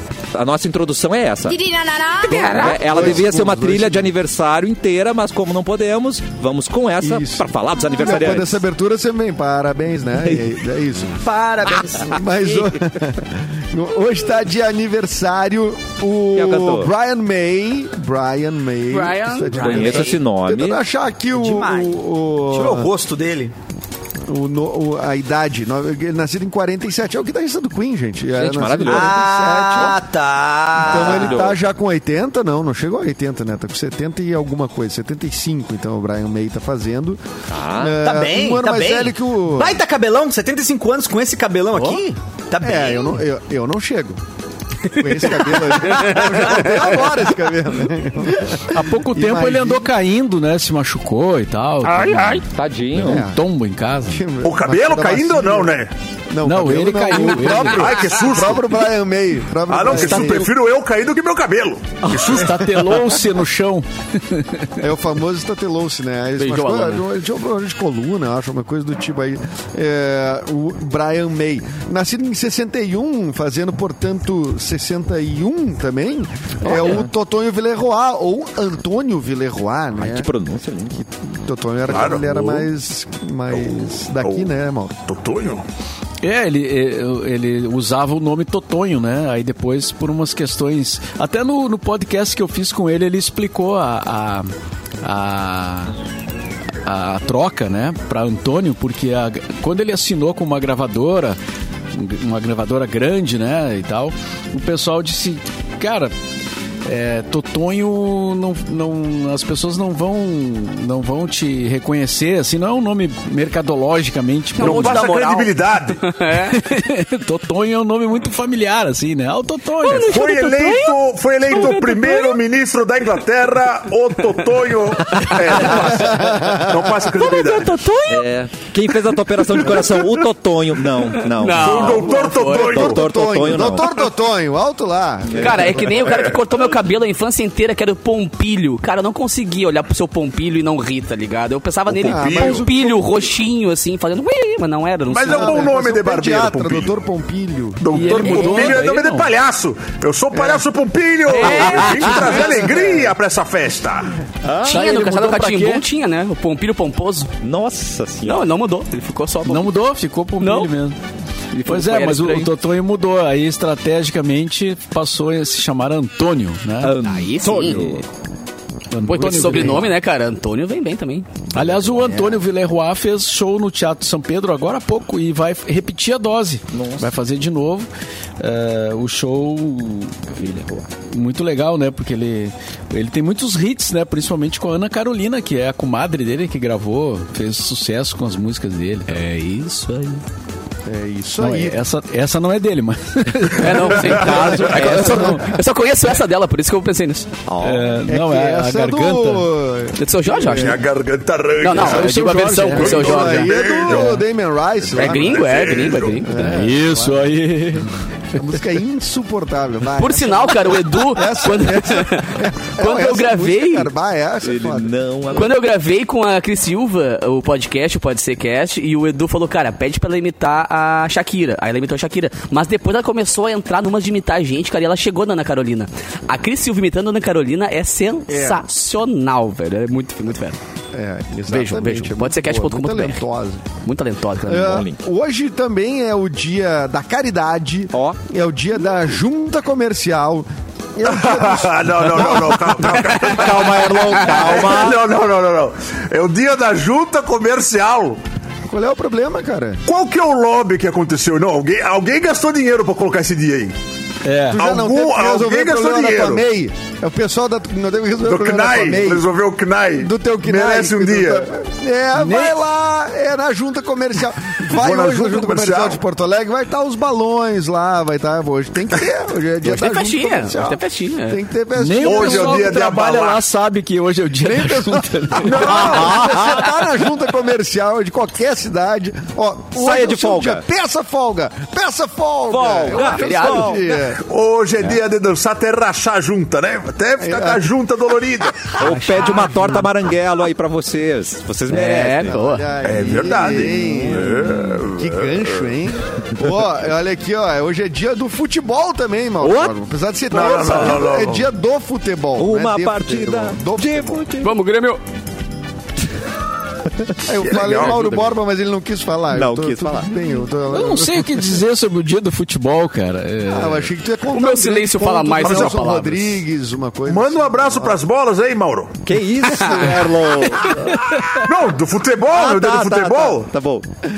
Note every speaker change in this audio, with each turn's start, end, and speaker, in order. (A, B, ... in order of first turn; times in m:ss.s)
0:00.3-0:08.6 A
0:02.3-0:04.1 B
0:07.0-0:11.2 B
0:11.2-0:12.3 C
0:12.0-0:22.9 B
0:16.4-0:16.9 A
0:18.9-0:20.0 D
0:19.5-0:20.8 A
0:19.7-0:20.2 C
0:21.3-0:22.0 C
0:22.5-0:23.5 C
0:24.3-0:30.0 B
0:28.4-0:29.2 A
0:28.8-0:31.5 C
0:30.8-0:31.6 A
0:30.8-0:39.8 B
0:37.5-0:38.0 A
0:38.0-0:43.2 C
0:42.6-0:44.2 B
0:44.9-0:49.9 B
0:45.5-0:46.8 D
0:48.7-0:54.3 E
0:52.4-0:53.3 A
0:53.0-0:53.4 B
0:54.1-0:55.8 B
0:54.4-0:55.9 F
0:56.3-1:00.5 B
0:56.4-0:57.9 E
0:57.5-0:58.7 F
0:59.7-1:02.7 F
0:59.9-1:00.5 E
1:02.0-1:04.8 E
1:04.8-1:20.3 B
1:06.4-1:07.0 D
1:16.7-1:17.0 D
1:20.0-1:21.0 A
1:21.2-1:25.0 B
1:21.9-1:22.7 F
1:24.2-1:24.5 F
1:25.0-1:25.6 F
1:26.2-1:34.5 E
1:35.0-1:35.9 E
1:36.8-1:41.4 E
1:41.9-1:46.1 E
1:46.8-1:55.0 E
1:54.6-1:56.6 D
1:54.6-1:56.0 F
1:56.4-2:00.2 E
1:59.8-2:02.4 D
1:59.9-2:07.7 F
2:05.1-2:05.8 A
2:05.2-2:05.7 D
2:05.9-2:06.9 B
2:07.1-2:08.3 D
2:08.1-2:13.9 A
2:11.2-2:12.9 D
2:11.5-2:13.0 F
2:12.8-2:16.2 B
2:15.3-2:15.7 A
2:15.4-2:25.7 D
2:16.1-2:16.3 F
2:21.9-2:22.7 F
2:22.0-2:23.2 B
2:25.1-2:26.9 F
2:25.3-2:27.8 B
2:27.8-2:34.1 F
2:27.9-2:29.3 E
2:28.2-2:28.8 D
2:31.3-2:32.7 D
2:34.4-2:34.8 A
2:34.6-2:35.8 E
2:34.6-2:37.3 D
2:37.4-2:38.5 A
2:38.2-2:39.7 D
2:39.5-2:41.0 E
2:40.4-2:40.7 D
2:41.6-2:42.5 D
2:41.6-2:47.0 E
2:46.8-2:48.1 A
2:47.0-2:48.0 D
2:48.9-2:49.9 E
2:49.0-2:51.5 D
2:51.5-2:57.9 E
2:56.7-2:57.1 A
2:58.4-3:00.4 E
3:00.4-3:00.9 A
3:01.1-3:09.3 E
3:09.2-3:10.2 D
3:10.9-3:11.8 B
3:11.4-3:15.5 E
3:13.6-3:17.3 D
3:14.1-3:15.4 A
3:17.5-3:18.0 A
3:17.6-3:19.5 E
3:18.1-3:20.8 B
3:20.0-3:20.8 D
3:20.5-3:22.1 F
3:21.6-3:23.6 D
3:21.7-3:23.1 E
3:22.7-3:25.7 B
3:22.7-3:24.2 F
3:24.9-3:26.2 F
3:24.9-3:26.6 D
3:26.2-3:27.3 B
3:26.4-3:27.9 E
3:28.3-3:34.9 B
3:30.0-3:33.9 D
3:34.4-3:35.6 A
3:35.3-3:50.6 D
3:48.3-3:48.6 B
3:50.9-3:53.6 B
3:51.5-3:53.2 D
3:53.8-3:54.8 D
3:54.5-4:02.8 B
3:54.6-3:55.0 A
4:01.0-4:08.2 F
4:03.0-4:05.0 A
4:08.7-4:09.8 B
4:09.9-4:13.8 F
4:14.2-4:14.6 E
4:14.5-4:19.3 B
4:14.6-4:16.4 F
4:18.2-4:21.5 F
4:20.0-4:32.8 B
4:22.2-4:22.6 E
4:24.7-4:26.0 F
4:29.6-4:31.4 D
4:31.8-4:35.7 E
4:32.0-4:33.4 F
4:34.4-4:44.2 B
4:35.5-4:36.8 A
4:39.8-4:40.6 A
4:42.5-4:43.9 A
4:42.9-4:43.8 D
4:44.1-4:48.8 F
4:47.2-4:47.6 B
4:48.8-4:52.4 A
4:49.2-4:49.7 D
4:51.7-4:52.7 D
4:52.2-5:04.2 B
4:52.8-4:55.5 F
4:59.4-4:59.7 A
5:00.3-5:01.5 F
5:02.4-5:04.5 A
5:04.4-5:05.0 D
5:07.3-5:11.6 B
5:07.4-5:08.2 F
5:09.3-5:10.1 A
5:10.7-5:13.9 E
5:13.5-5:18.0 B
5:14.3-5:16.4 D
5:15.4-5:15.8 F
5:17.1-5:19.0 F
5:19.0-5:21.5 A
5:19.7-5:20.0 D
5:21.3-5:23.5 F
5:22.3-5:23.9 A